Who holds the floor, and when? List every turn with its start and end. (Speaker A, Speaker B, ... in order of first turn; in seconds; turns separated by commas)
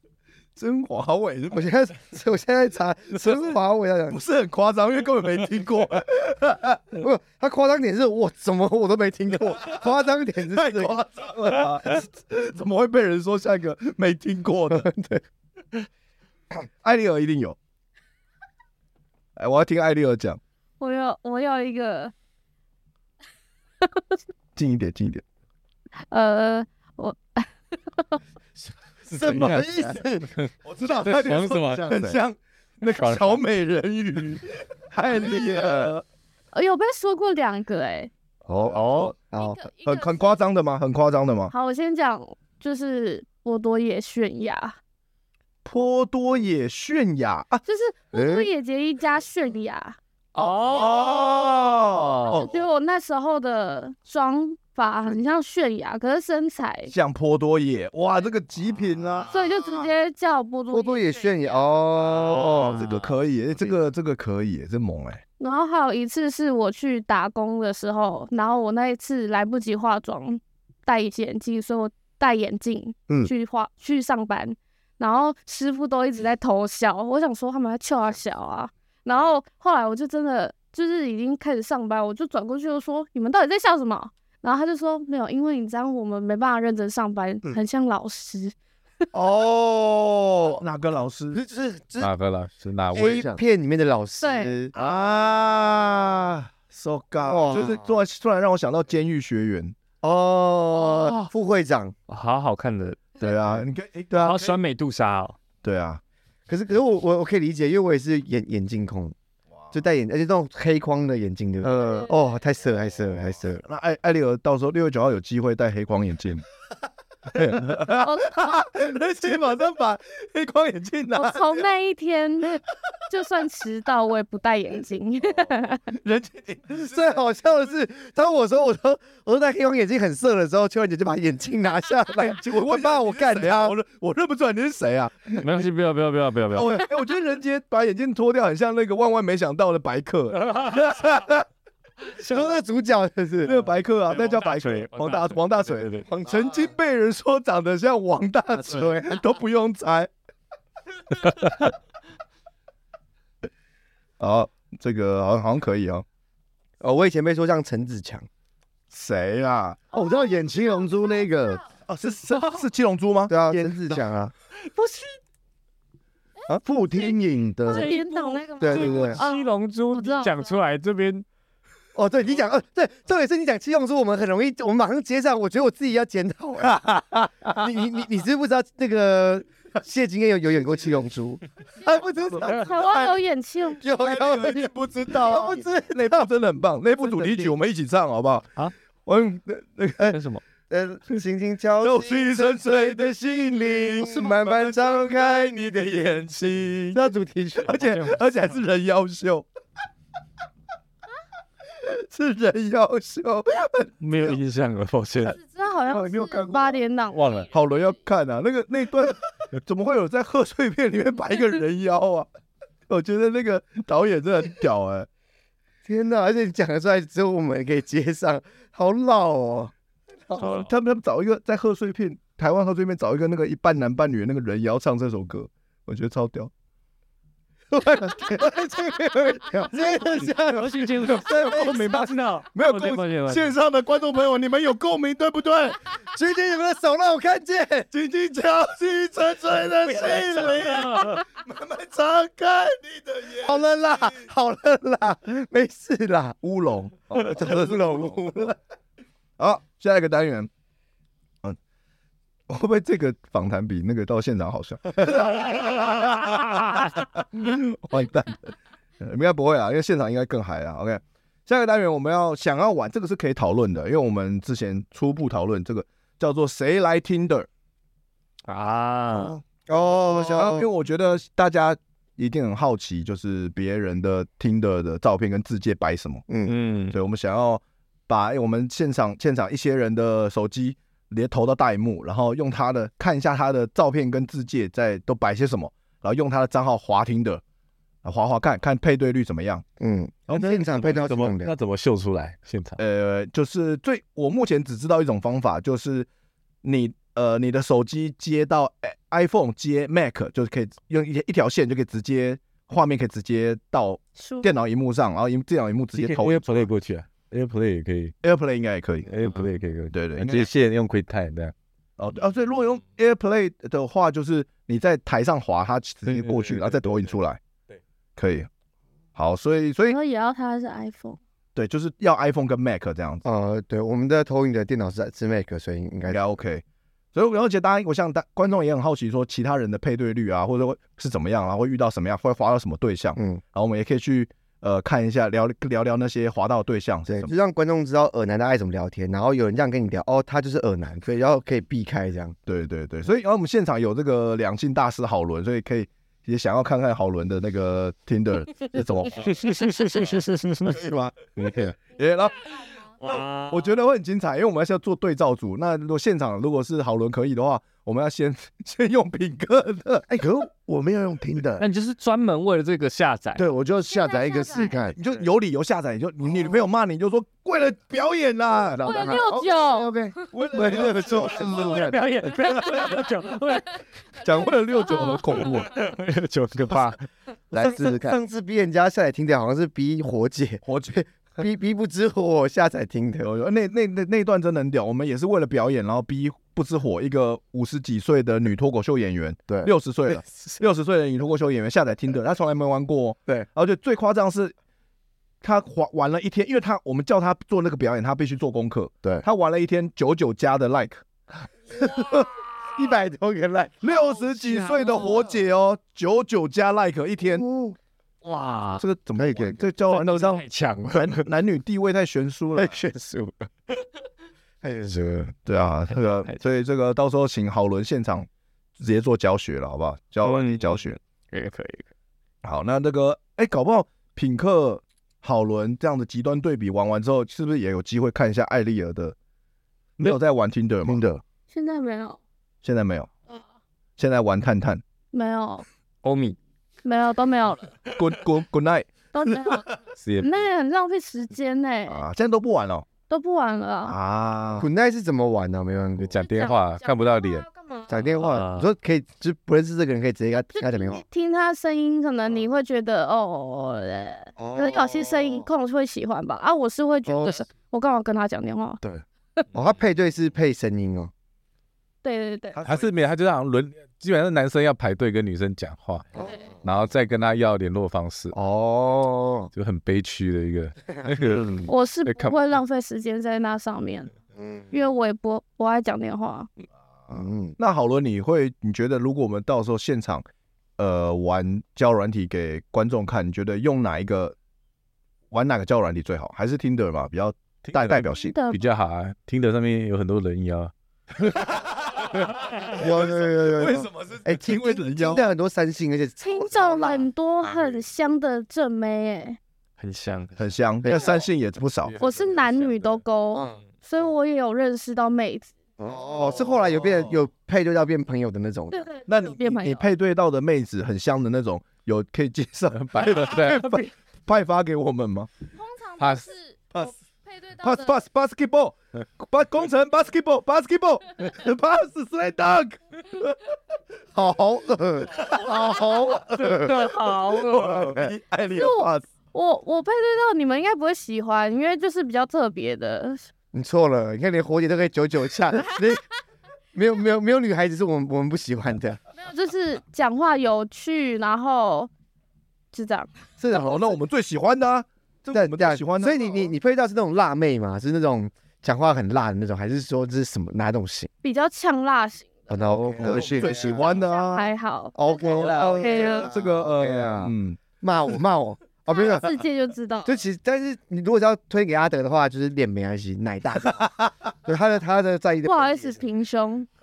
Speaker A: 0.6-1.6, Speaker B: 1.5-4.2, Speaker A: 4.1-6.8, Speaker B: 7.0-11.0, Speaker A: 10.5-14.9, Speaker B: 14.7-15.2, Speaker A: 16.8-17.6, Speaker A: 19.4-20.4, Speaker C: 20.8-22.1, Speaker C: 23.8-24.2, Speaker A: 24.6-25.2, Speaker C: 26.1-28.2, Speaker B: 29.1-30.3, Speaker D: 29.1-29.7, Speaker A: 30.6-36.0, Speaker D: 31.0-31.9, Speaker E: 31.7-32.2, Speaker D: 32.9-33.4, Speaker C: 36.5-38.1, Speaker E: 38.5-39.1, Speaker A: 38.7-39.0, Speaker B: 39.2-39.6, Speaker C: 39.4-40.3, Speaker A: 39.8-41.5, Speaker C: 41.5-44.8, Speaker A: 45.6-47.6, Speaker C: 47.6-50.0, Speaker E: 48.1-48.5, Speaker F: 50.3-51.2, Speaker A: 50.6-52.5, Speaker F: 51.9-52.4, Speaker C: 52.3-56.9, Speaker A: 56.9-59.4, Speaker C: 59.3-61.4, Speaker B: 60.7-62.9, Speaker A: 62.5-65.2, Speaker C: 65.4-88.5, Speaker B: 89.1-90.6, Speaker A: 90.6-91.4, Speaker B: 91.3-92.1, Speaker D: 92.0-93.2, Speaker B: 92.9-94.7, Speaker E: 92.9-93.4, Speaker C: 94.2-94.5, Speaker A: 94.7-99.7, Speaker B: 97.2-97.8, Speaker B: 100.0-101.9, Speaker F: 102.1-103.6, Speaker A: 103.2-104.5, Speaker F: 104.2-105.4, Speaker A: 105.6-106.0, Speaker B: 106.5-109.1, Speaker B: 109.7-113.6, Speaker A: 113.7-116.4, Speaker A: 117.3-121.7, Speaker C: 118.0-118.5, Speaker C: 121.1-125.8, Speaker A: 125.9-127.2, Speaker B: 126.7-133.7, Speaker A: 132.2-135.4, Speaker F: 135.4-136.8, Speaker A: 136.5-141.4, Speaker F: 140.3-140.9, Speaker B: 142.1-143.6, Speaker A: 143.4-150.1, Speaker F: 144.1-146.1, Speaker B: 148.5-149.1, Speaker A: 154.2-156.0, Speaker B: 156.8-158.3, Speaker A: 158.9-159.8, Speaker E: 159.9-161.6, Speaker A: 161.9-164.0, Speaker B: 163.3-164.3, Speaker E: 166.6-167.9, Speaker C: 167.7-170.3, Speaker F: 167.7-171.2, Speaker B: 168.6-169.1, Speaker E: 168.8-169.2, Speaker B: 171.9-176.8, Speaker A: 176.6-177.3, Speaker B: 177.4-183.1, Speaker C: 182.5-183.9, Speaker B: 183.8-186.3, Speaker A: 183.8-188.5, Speaker B: 187.0-187.5, Speaker A: 189.1-190.2, Speaker F: 190.1-190.4, Speaker B: 190.7-195.2, Speaker A: 191.8-197.0, Speaker B: 196.9-197.8, Speaker A: 197.6-199.4, Speaker F: 197.8-198.2, Speaker A: 201.8-204.4, Speaker F: 204.0-205.4, Speaker C: 205.3-207.5, Speaker A: 205.9-206.8, Speaker D: 207.1-207.5, Speaker A: 207.5-212.3, Speaker A: 212.9-215.1, Speaker B: 215.8-219.7, Speaker A: 220.3-226.5, Speaker F: 220.4-220.7, Speaker B: 227.7-230.9, Speaker A: 229.8-235.8, Speaker F: 230.2-233.5, Speaker B: 236.1-237.9, Speaker A: 237.9-244.1, Speaker B: 239.5-241.2, Speaker F: 240.6-241.2, Speaker B: 243.3-246.4, Speaker A: 246.4-248.1, Speaker B: 247.1-248.6, Speaker A: 249.4-250.5, Speaker A: 252.5-267.5, Speaker F: 268.4-269.3, Speaker B: 269.7-270.7, Speaker A: 270.1-276.2, Speaker B: 276.3-276.5, Speaker F: 276.4-277.0, Speaker A: 276.9-287.4, Speaker A: 288.0-289.6, Speaker B: 289.8-291.5, Speaker D: 290.7-292.8, Speaker A: 292.8-296.1, Speaker A: 296.6-306.7, Speaker C: 304.2-304.5, Speaker D: 305.9-308.1, Speaker A: 308.2-309.1, Speaker D: 309.1-311.5, Speaker A: 309.9-310.5, Speaker A: 312.0-317.4, Speaker D: 316.1-317.1, Speaker A: 318.1-318.5, Speaker A: 319.1-319.9, Speaker C: 319.9-321.2, Speaker A: 321.5-323.2, Speaker B: 323.2-326.2, Speaker A: 326.1-326.6, Speaker A: 327.1-337.3, Speaker B: 333.1-333.4, Speaker B: 337.1-342.4, Speaker A: 342.5-349.4, Speaker F: 349.2-350.7, Speaker A: 350.6-351.1, Speaker D: 351.4-351.7, Speaker A: 351.7-352.6, Speaker F: 353.0-353.7, Speaker A: 353.1-360.1, Speaker E: 360.1-361.6, Speaker F: 361.6-363.4, Speaker E: 363.4-365.0, Speaker C: 363.9-364.8, Speaker A: 364.9-369.1, Speaker E: 368.8-369.4, Speaker B: 368.8-371.8, Speaker C: 368.8-369.9, Speaker A: 370.3-372.9, Speaker E: 370.6-371.9, Speaker F: 371.3-373.8, Speaker A: 374.2-375.7, Speaker F: 375.0-377.0, Speaker E: 377.5-378.1, Speaker B: 377.5-383.3, Speaker A: 380.6-381.0, Speaker A: 383.2-394.5, Speaker A: 395.4-401.0, Speaker B: 401.7-403.9, Speaker A: 403.8-407.4, Speaker F: 404.2-405.3, Speaker B: 407.2-407.8, Speaker F: 408.2-408.8, Speaker A: 408.8-410.4, Speaker F: 409.9-411.2, Speaker A: 410.9-412.8, Speaker B: 412.5-413.5, Speaker B: 414.6-415.3, Speaker A: 415.4-421.0, Speaker F: 420.2-421.9, Speaker A: 422.4-429.1, Speaker A: 430.0-431.0, Speaker E: 430.8-431.2, Speaker C: 431.5-432.2, Speaker A: 432.6-433.1, Speaker A: 434.0-434.8, Speaker C: 435.1-435.6, Speaker F: 436.0-436.4, Speaker C: 436.8-437.8, Speaker A: 437.9-438.9, Speaker C: 439.1-442.0, Speaker D: 440.0-440.3, Speaker A: 441.9-442.9, Speaker C: 443.1-443.9, Speaker A: 443.9-444.7, Speaker B: 444.6-446.2, Speaker D: 446.0-447.4, Speaker C: 446.3-446.6, Speaker B: 447.9-451.0, Speaker F: 448.3-448.7, Speaker C: 450.5-458.8, Speaker B: 454.4-455.4, Speaker B: 457.1-457.4, Speaker B: 459.5-461.1, Speaker C: 462.0-462.6, Speaker D: 462.6-466.1, Speaker D: 466.6-468.3, Speaker B: 468.3-469.5, Speaker D: 469.5-472.3, Speaker C: 471.7-474.1, Speaker C: 474.7-476.5, Speaker B: 477.1-477.5, Speaker A: 477.6-480.2, Speaker A: 480.8-484.3, Speaker A: 485.3-488.3, Speaker D: 487.7-491.4, Speaker C: 488.2-488.6, Speaker A: 491.5-495.2, Speaker B: 492.8-497.1, Speaker C: 496.2-499.4, Speaker F: 499.8-500.4, Speaker A: 500.4-502.0, Speaker B: 500.8-501.2, Speaker C: 502.0-505.5, Speaker B: 505.8-508.8, Speaker C: 508.7-509.9, Speaker A: 509.1-515.3, Speaker D: 512.7-513.8, Speaker C: 515.5-518.0, Speaker D: 516.0-516.2, Speaker A: 517.6-523.4, Speaker B: 524.1-526.9, Speaker F: 526.3-527.9, Speaker A: 527.4-529.0, Speaker B: 527.6-528.1, Speaker C: 528.5-533.3, Speaker B: 533.5-536.0, Speaker B: 536.7-539.0, Speaker C: 539.2-541.9, Speaker C: 542.7-543.1, Speaker B: 543.4-544.0, Speaker A: 543.5-546.5, Speaker B: 545.3-551.1, Speaker C: 551.2-552.5, Speaker B: 552.5-553.6, Speaker E: 552.9-553.9, Speaker A: 553.0-554.5, Speaker C: 554.0-556.3, Speaker B: 554.9-559.4, Speaker A: 555.7-557.6, Speaker C: 558.9-560.2, Speaker B: 560.0-563.9, Speaker B: 564.4-566.0, Speaker C: 565.4-566.7